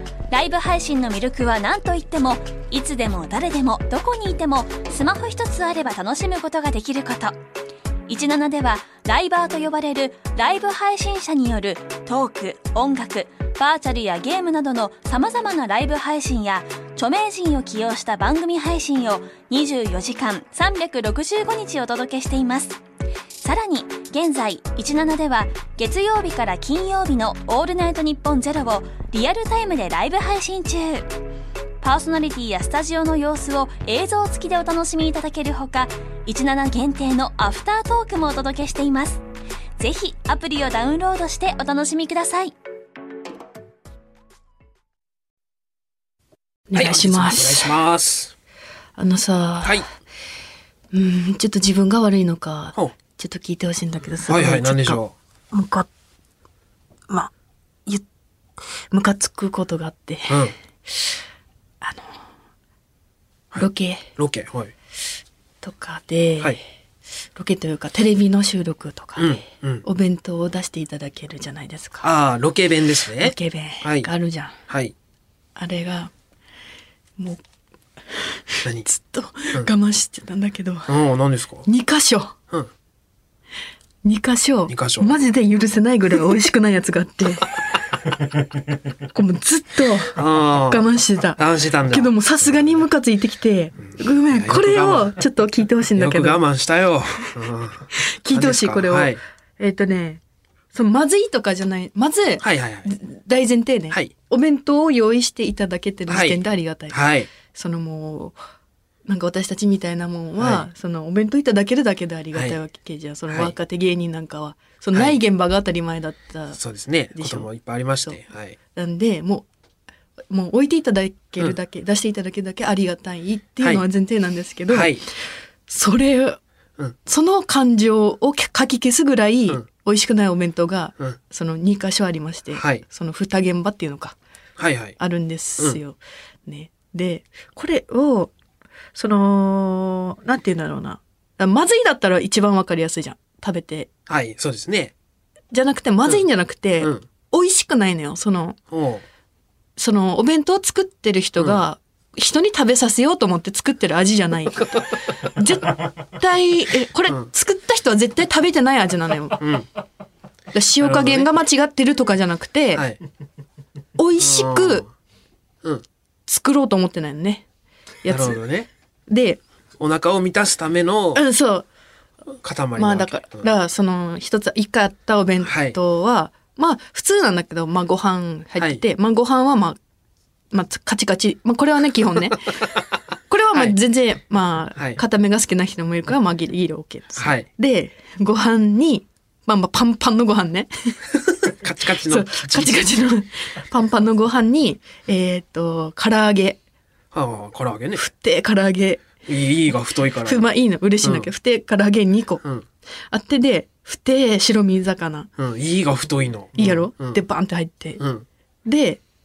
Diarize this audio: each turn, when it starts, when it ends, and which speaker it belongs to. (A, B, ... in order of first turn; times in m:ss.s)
0:00.3-0:07.3 A
0:08.1-0:22.8 A
0:23.4-0:31.1 A
0:31.8-0:39.2 A
0:39.8-0:42.5 A
0:46.7-0:47.7 B
0:46.7-0:48.3 C
0:49.0-0:49.8 B
0:50.9-0:55.0 B
0:54.3-0:55.1 C
0:55.5-0:55.9 B
0:58.9-1:01.2 B
1:00.3-1:00.5 C
1:01.8-1:02.2 B
1:03.5-1:04.7 C
1:03.6-1:04.1 B
1:05.6-1:06.6 B
1:07.3-1:12.1 B
1:09.2-1:09.8 C
1:12.0-1:14.1 C
1:13.2-1:14.5 B
1:15.6-1:16.1 B
1:17.2-1:17.4 B
1:18.1-1:20.9 B
1:20.9-1:21.6 C
1:21.6-1:22.3 B
1:24.0-1:27.5 B
1:24.7-1:25.1 C
1:29.1-1:36.4 B
1:30.1-1:32.8 C
1:33.9-1:35.2 C
1:36.0-1:39.2 C
1:37.9-1:40.2 B
1:40.7-1:48.4 B
1:42.4-1:42.9 C
1:46.1-1:46.4 C
1:46.9-1:47.3 C
1:49.0-1:56.6 B
1:50.4-1:50.7 C
1:54.9-1:55.2 C
1:56.6-1:58.6 C
1:57.1-1:57.5 B
1:58.7-1:59.5 B
2:00.3-2:05.0 B
2:04.7-2:05.0 C
2:05.7-2:06.4 B
2:07.0-2:14.2 B
2:12.6-2:12.8 C
2:14.6-2:14.9 C
2:15.0-2:18.3 B
2:18.9-2:23.9 B
2:24.1-2:24.9 C
2:25.5-2:28.6 B
2:28.7-2:29.0 C
2:29.8-2:39.4 B
2:39.4-2:39.7 C
2:40.5-2:42.9 B
2:40.8-2:41.3 C
2:44.0-2:44.8 B
2:44.2-2:44.9 C
2:46.3-2:47.4 B
2:48.0-2:48.4 B
2:48.1-2:48.7 C
2:49.1-2:49.4 B
2:49.8-2:51.2 C
2:51.1-2:51.7 B
2:52.4-2:53.5 C
2:52.8-2:59.8 B
2:55.4-2:55.8 C
3:00.5-3:02.6 B
3:03.3-3:11.1 B
3:07.2-3:07.5 C
3:11.6-3:12.8 C
3:11.8-3:16.6 B
3:17.1-3:18.0 C
3:18.0-3:19.2 B
3:19.2-3:20.5 C
3:20.2-3:22.4 B
3:21.0-3:21.3 C
3:23.1-3:25.3 B
3:25.4-3:27.2 C
3:26.5-3:28.0 B
3:28.0-3:28.2 C
3:28.6-3:29.0 B